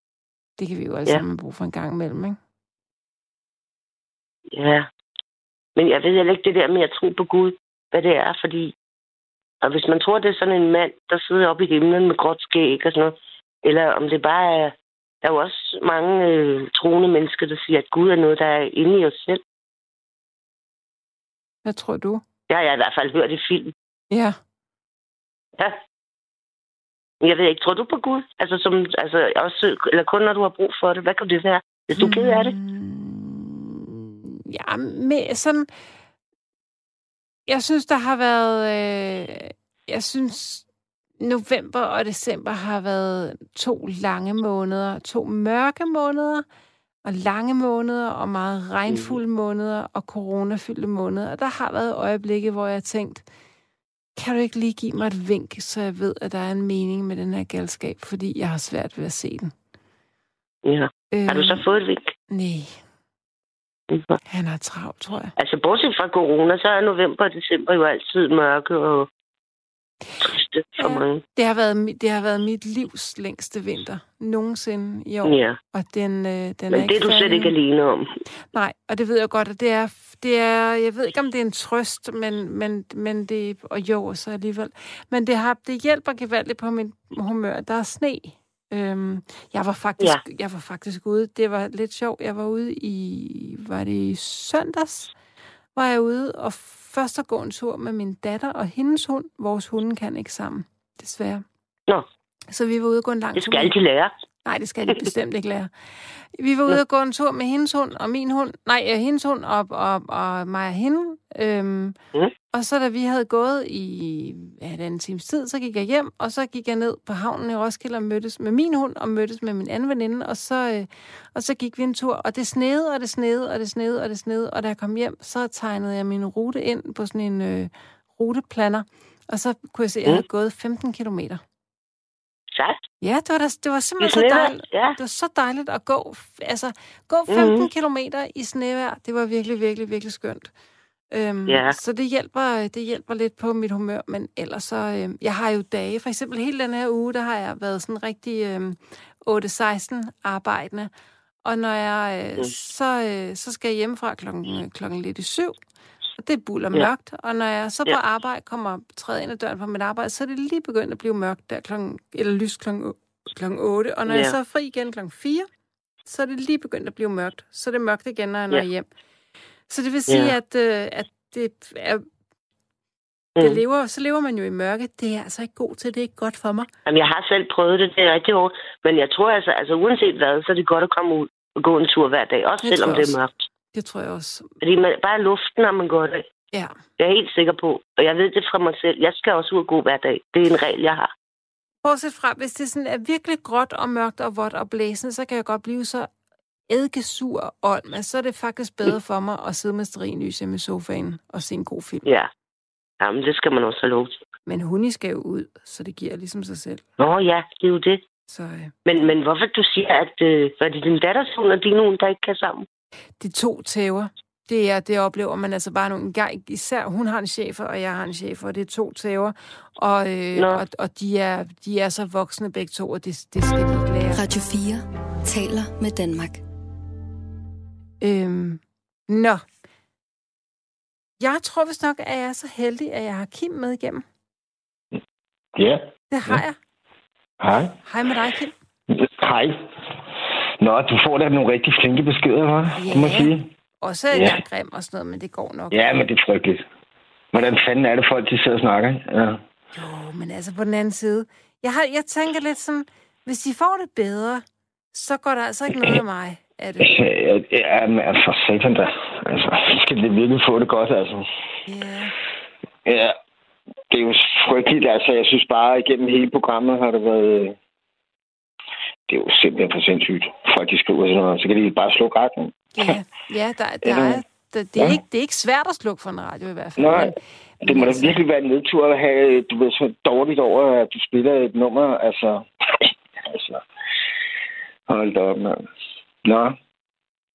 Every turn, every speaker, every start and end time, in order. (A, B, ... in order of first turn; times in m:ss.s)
0:00.6-0:02.4 A
0:04.5-0:04.9 B
0:05.8-0:08.8 B
0:09.6-0:19.4 B
0:21.6-0:22.2 A
0:22.5-0:23.7 B
0:24.1-0:24.4 A
0:27.2-0:32.6 B
0:32.0-0:35.7 A
0:37.5-0:40.6 A
0:41.2-0:46.4 A
0:47.0-0:53.2 A
0:54.2-0:59.5 A
1:00.6-1:02.1 B
1:01.1-1:01.6 A
1:02.3-1:02.8 A
1:03.9-1:04.2 B
1:04.3-1:05.3 A
1:05.4-1:09.1 B
1:10.2-1:11.2 B
1:10.8-1:17.6 A
1:15.2-1:15.6 B
1:16.7-1:18.2 B
1:18.5-1:35.1 A
1:35.8-1:41.4 A
1:42.5-1:43.7 A
1:43.4-1:44.1 B
1:44.4-1:45.7 A
1:46.3-1:52.0 A
1:52.5-2:11.4 A
2:12.5-2:12.8 B
2:13.0-2:20.5 A
2:14.0-2:15.0 B
2:17.3-2:17.7 B
2:21.1-2:30.9 A
2:21.5-2:21.8 B
2:31.4-2:35.6 A
2:36.2-2:45.5 A
2:44.1-2:44.4 B
2:46.0-2:48.9 A
2:49.7-2:52.0 A
2:50.1-2:50.4 B
2:53.4-2:53.6 B
2:53.4-2:56.7 A
2:56.9-3:03.3 B
3:02.6-3:03.2 A
3:03.7-3:04.5 A
3:04.6-3:06.3 B
3:07.0-3:11.1 B
3:11.8-3:16.1 A
3:16.7-3:22.1 A
3:22.0-3:22.3 B
3:23.0-3:24.2 B
3:24.5-3:26.8 A
3:27.0-3:28.0 B
3:28.3-3:28.7 A
3:28.8-3:32.7 B
3:33.2-3:44.2 A
3:40.4-3:40.6 B
3:44.1-3:46.4 C
3:48.0-3:49.4 A
3:51.2-3:54.0 A
3:55.6-3:56.4 D
3:56.1-3:56.6 A
3:57.4-3:57.8 D
3:57.8-3:58.5 A
3:59.0-3:59.6 D
4:00.6-4:03.5 D
4:02.8-4:05.8 A
4:04.1-4:04.4 D
4:05.7-4:06.6 D
4:07.3-4:09.4 D
4:09.7-4:17.0 A
4:16.8-4:21.3 D
4:21.7-4:22.2 A
4:22.8-4:23.2 D
4:23.9-4:27.6 D
4:29.1-4:32.6 D
4:32.8-4:38.2 A
4:33.8-4:34.2 D
4:36.8-4:43.6 D
4:44.9-4:45.6 D
4:46.2-4:46.6 D